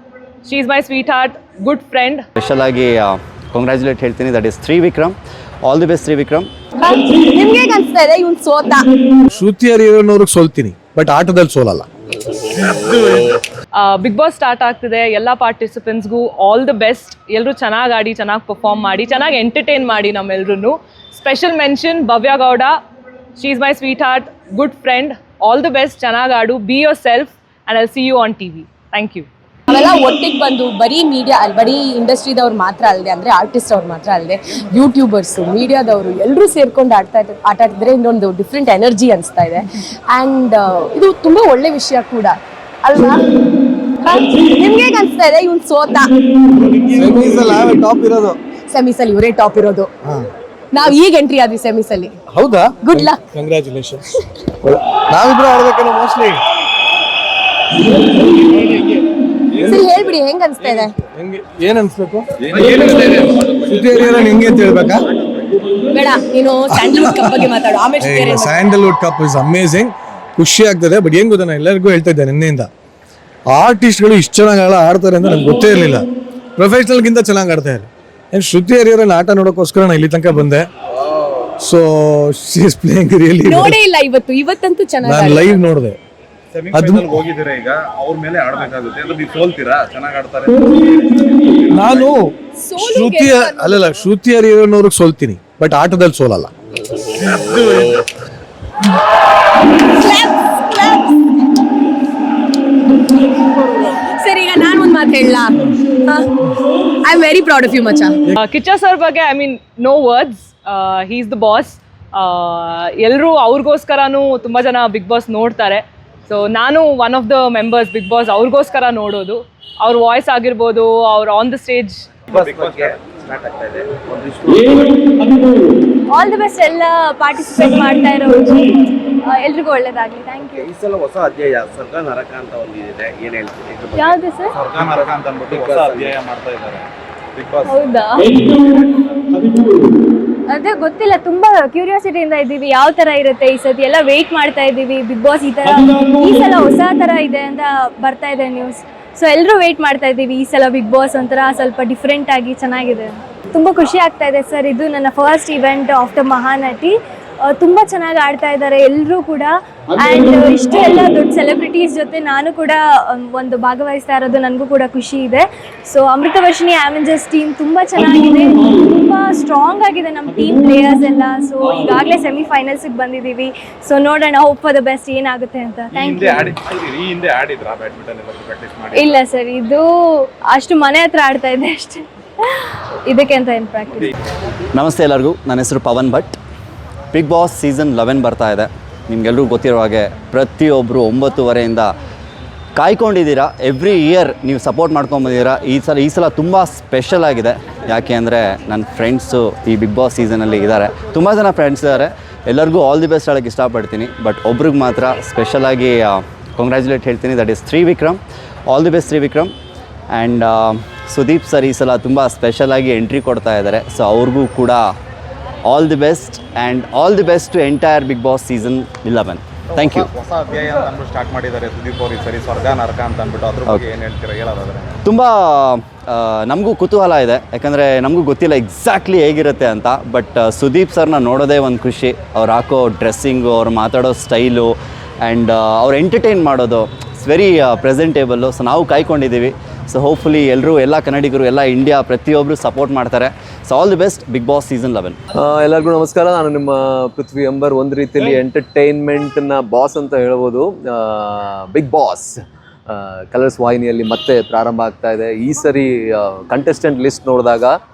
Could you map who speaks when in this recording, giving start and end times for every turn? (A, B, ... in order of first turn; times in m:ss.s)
0:00.4-0:02.2 A
0:02.4-0:06.5 B
0:06.8-0:08.9 C
0:09.3-0:11.9 D
0:13.7-0:22.8 A
0:23.4-0:29.3 A
0:29.7-0:43.3 C
0:44.0-0:46.1 C
0:46.8-0:48.4 D
0:48.7-0:49.9 C
0:50.7-0:52.2 C
0:52.3-0:54.0 D
0:52.8-0:53.2 C
0:54.6-0:56.4 D
0:58.5-0:58.9 D
0:59.6-0:59.9 D
0:59.6-1:00.9 C
1:01.1-1:05.0 D
1:02.6-1:03.5 E
1:04.1-1:04.4 E
1:05.1-1:05.6 E
1:05.9-1:08.6 C
1:06.7-1:07.5 D
1:08.0-1:12.7 D
1:13.5-1:16.0 D
1:16.6-1:20.7 D
1:21.6-1:23.8 D
1:23.4-1:25.6 C
1:25.0-1:26.0 D
1:26.5-1:32.1 E
1:26.7-1:27.2 D
1:31.7-1:36.5 D
1:32.6-1:33.9 C
1:37.2-1:37.9 E
1:39.9-1:41.2 C
1:43.6-1:46.3 C
1:47.0-1:48.2 C
1:48.4-2:02.0 A
2:02.3-2:03.0 E
2:02.3-2:04.9 F
2:06.1-2:10.7 G
2:10.7-2:14.2 F
2:13.9-2:14.6 G
2:14.5-2:17.7 E
2:15.5-2:16.1 F
2:17.6-2:18.5 G
2:20.5-2:56.6 G
2:55.9-2:59.2 E
2:58.9-3:02.0 G
3:02.6-3:04.1 G
3:04.7-3:06.3 B
3:07.1-3:11.9 B
3:12.8-3:29.5 B
3:30.1-3:34.8 B
3:35.6-3:40.1 B
3:39.7-3:45.0 E
3:45.0-3:54.7 B
3:55.2-4:05.2 B
4:05.3-4:12.3 H
4:12.9-4:17.7 H